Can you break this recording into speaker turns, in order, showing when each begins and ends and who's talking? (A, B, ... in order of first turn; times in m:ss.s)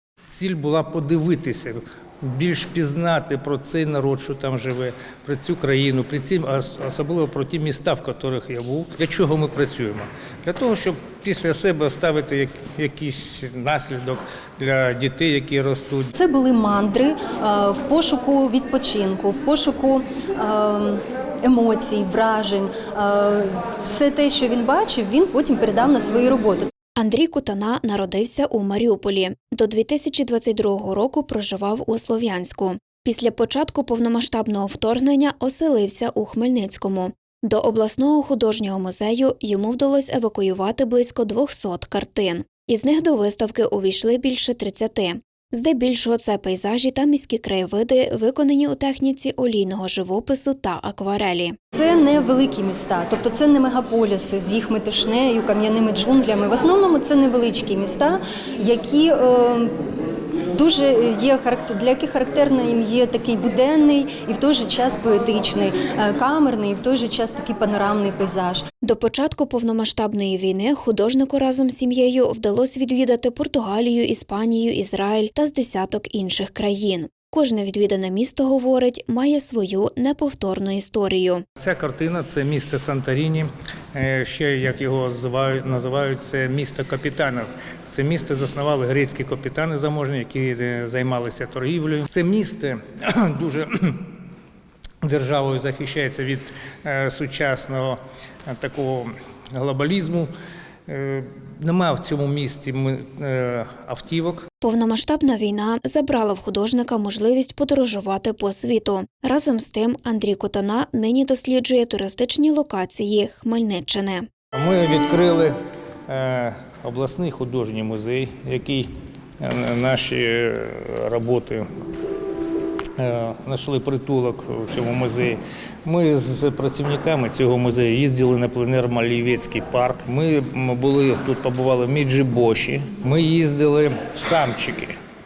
0:00.3-0:16.1 A
0:16.1-0:26.7 B
0:27.0-0:51.5 C
0:51.7-0:59.8 B
1:00.5-1:08.6 B
1:08.8-1:21.4 C
1:21.6-1:34.1 A
1:35.0-1:40.3 A
1:40.9-1:44.4 A
1:44.6-1:54.2 C
1:54.5-1:55.5 A
1:56.1-1:58.9 A
1:59.4-2:01.6 A
2:03.0-2:15.0 A